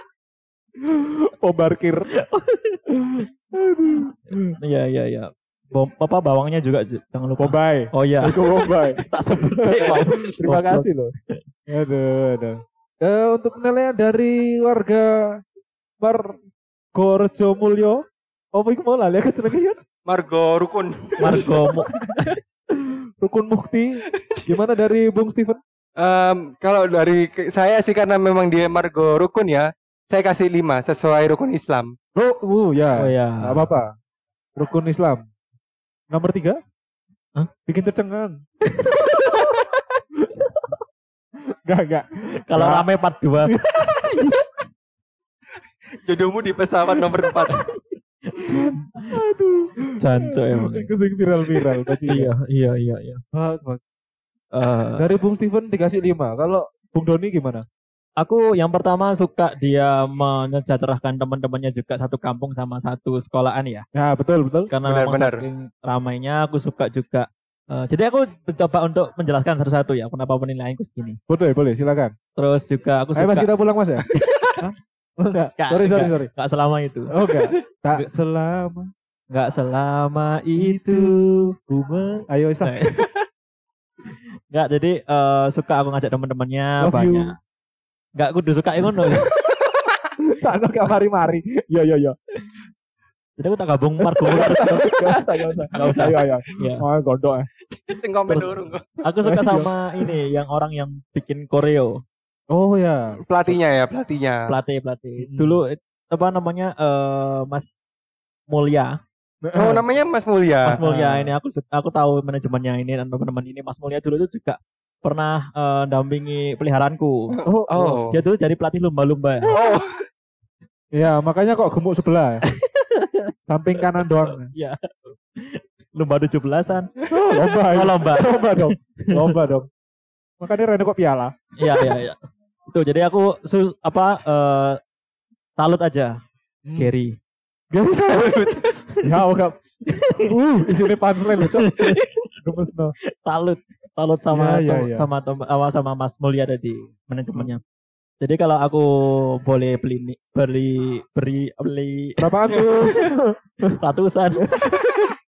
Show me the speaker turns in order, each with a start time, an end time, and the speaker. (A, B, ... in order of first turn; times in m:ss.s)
0:00.8-0:02.1 A
0:02.1-0:02.8 B
0:02.9-0:04.6 A
0:04.6-0:11.4 B
0:07.4-0:11.1 A
0:11.7-0:15.4 A
0:16.0-0:16.4 A
0:17.0-0:19.8 A
0:20.1-0:22.4 C
0:21.2-0:21.9 B
0:21.2-0:25.6 A
0:24.2-0:24.4 C
0:26.0-0:32.0 C
0:32.2-0:33.9 A
0:33.0-0:33.7 B
0:34.6-0:35.3 A
0:36.1-0:36.6 A
0:37.7-0:38.4 A
0:38.7-0:39.4 B
0:39.3-0:39.6 A
0:40.2-0:40.7 A
0:41.6-0:42.9 A
0:42.5-0:43.5 B
0:43.5-0:44.4 A
0:46.0-0:47.6 C
0:48.3-0:49.2 B
0:48.5-0:52.3 A
0:50.0-0:50.9 B
0:52.1-0:53.2 B
0:53.3-0:53.8 A
0:54.5-0:55.1 B
0:55.0-0:57.6 A
0:58.2-1:03.8 B
1:04.0-1:04.7 A
1:04.7-1:11.2 B
1:04.8-1:05.4 C
1:11.3-1:12.1 A
1:12.4-1:13.5 B
1:13.2-1:14.0 A
1:14.1-1:14.6 C
1:14.6-1:16.3 A
1:15.6-1:17.1 B
1:17.1-1:18.9 A
1:19.3-1:21.2 B
1:20.6-1:22.8 A
1:21.9-1:23.0 B
1:24.5-1:27.4 B
1:26.8-1:27.3 A
1:28.2-1:29.3 B
1:30.2-1:32.2 A
1:33.4-1:35.2 B
1:34.0-1:37.5 A
1:35.7-1:36.8 B
1:37.8-1:38.8 C
1:39.0-1:42.0 B
1:39.2-1:40.1 A
1:42.5-1:43.2 A
1:43.3-1:44.5 C
1:44.5-1:47.8 B
1:45.2-1:45.6 A
1:48.5-1:49.0 B
1:49.4-1:49.9 A
1:49.6-1:50.8 C
1:50.6-1:57.4 B
1:50.7-1:51.3 A
1:57.3-1:58.2 C
1:57.4-1:58.1 A
1:58.1-1:59.5 B
1:59.5-2:00.1 C
2:00.9-2:02.4 A
2:02.5-2:03.3 B
2:03.5-2:04.5 A
2:04.2-2:06.9 B
2:07.1-2:09.7 A
2:07.6-2:09.4 B
2:10.4-2:11.9 A
2:11.6-2:14.8 B
2:15.6-2:16.2 B
2:16.6-2:16.9 A
2:16.8-2:17.2 B
2:17.7-2:23.0 A
2:18.1-2:18.8 C
2:19.9-2:20.3 B
2:21.4-2:22.1 B
2:23.1-2:27.6 B
2:24.3-2:25.1 A
2:28.2-2:32.3 B
2:32.2-2:33.7 A
2:33.8-2:34.7 B
2:34.6-2:35.1 A